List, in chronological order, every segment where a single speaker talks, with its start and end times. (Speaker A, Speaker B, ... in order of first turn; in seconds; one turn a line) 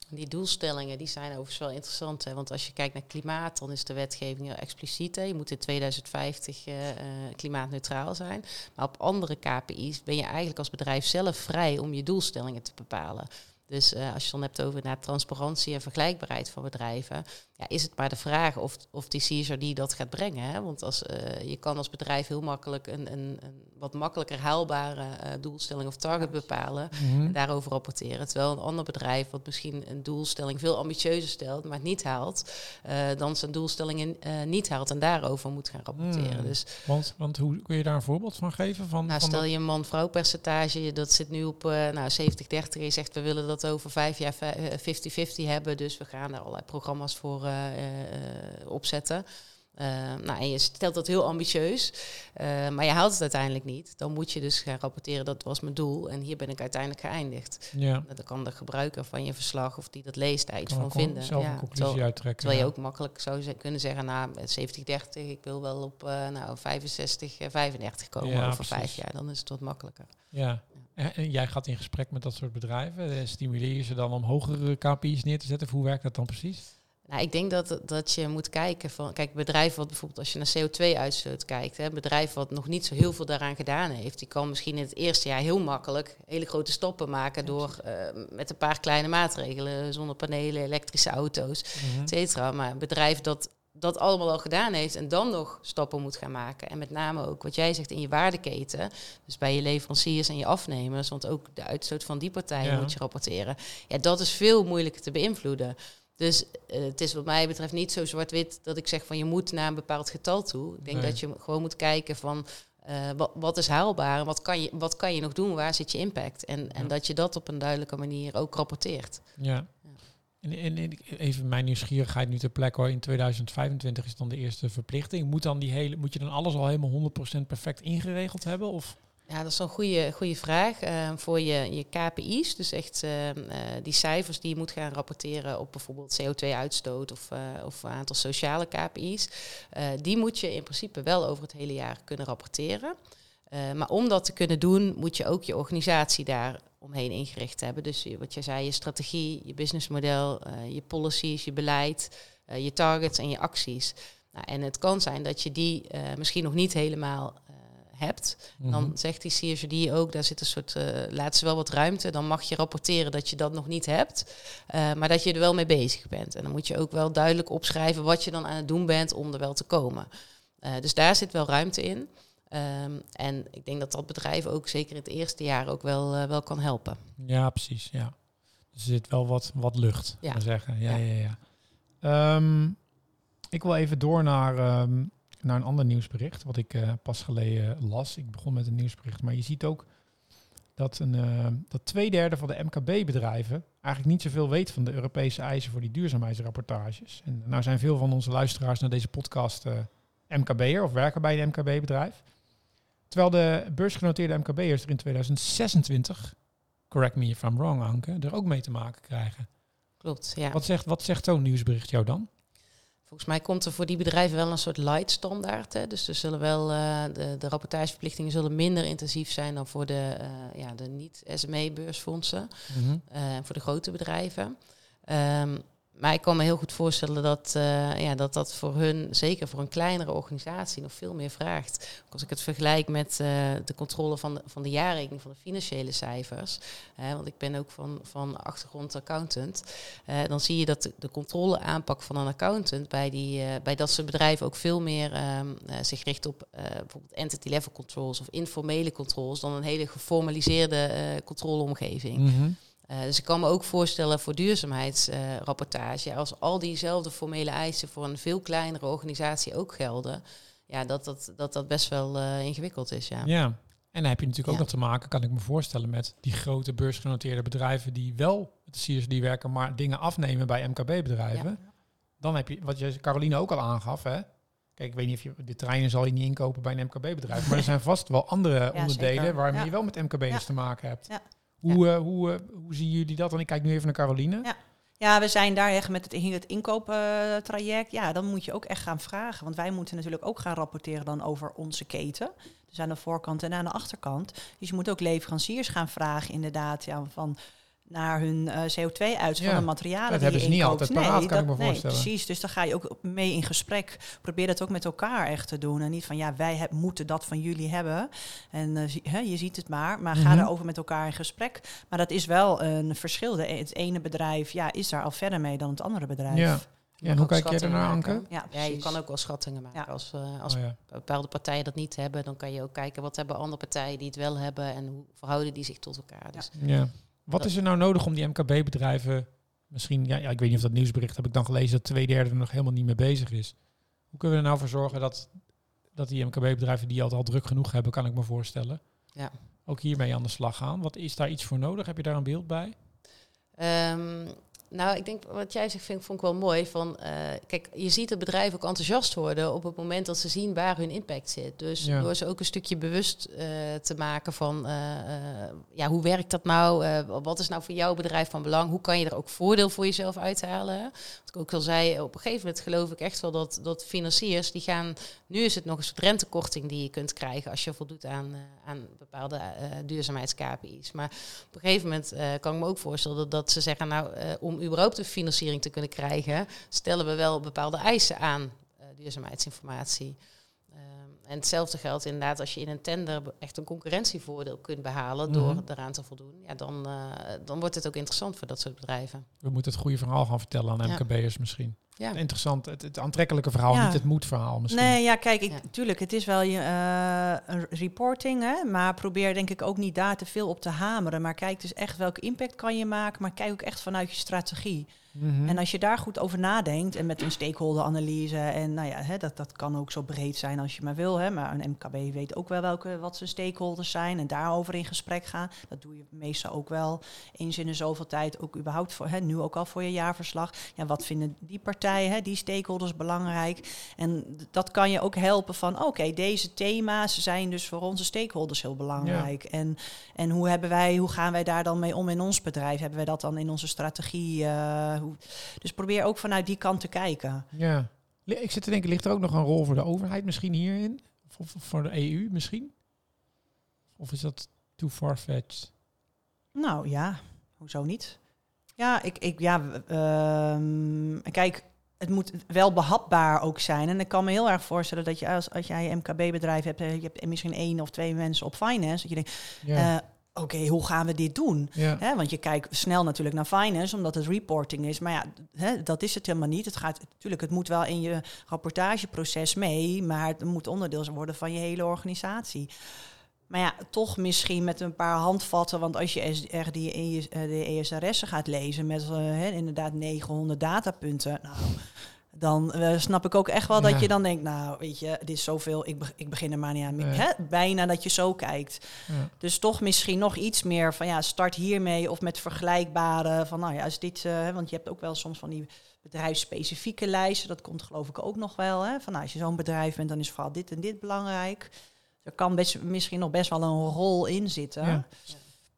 Speaker A: 0.1-36.9
Speaker B: 26.2-26.4
Speaker C: 26.9-27.3
Speaker C: 35.9-39.4
Speaker A: 39.1-70.9
Speaker C: 57.7-58.0
Speaker C: 60.7-62.7
Speaker C: 68.2-69.0
Speaker C: 70.3-76.7
Speaker A: 77.0-120.0
Speaker C: 91.8-92.1
Speaker C: 102.6-102.9
Speaker C: 110.9-111.2
Speaker C: 119.4-129.0
Speaker A: 129.3-142.9
Speaker A: 143.5-177.0
Speaker C: 158.6-158.9
Speaker C: 177.2-182.9
Speaker A: 180.2-181.0
Speaker C: 183.5-209.5
Speaker A: 210.0-210.6
Speaker C: 210.5-212.3
Speaker A: 213.0-263.3
Speaker C: 222.7-223.0
Speaker C: 252.2-252.6
Speaker C: 263.2-284.5
Speaker B: 278.7-281.2
Speaker B: 284.4-297.4
Speaker B: 297.9-316.6
Speaker C: 299.4-302.1
Speaker C: 310.1-310.5
Speaker C: 316.3-318.2
Speaker A: 317.0-327.5
Speaker B: 318.3-319.9
Speaker C: 320.5-320.8
Speaker C: 326.6-342.8
Speaker A: 343.6-389.3
Speaker C: 351.8-352.1
Speaker C: 385.3-385.6
Speaker C: 389.4-395.0
Speaker A: 391.8-392.2
Speaker B: 393.7-404.9
Speaker C: 405.1-405.6
Speaker B: 405.4-437.5
Speaker C: 429.0-429.3
Speaker C: 437.5-442.8
Speaker C: 443.9-445.7
Speaker B: 446.5-448.2
Speaker B: 448.8-472.7
Speaker C: 459.6-459.9
Speaker C: 461.8-462.0
Speaker B: 473.5-501.7
Speaker C: 483.7-484.1
Speaker C: 486.9-487.2
Speaker B: 502.2-505.1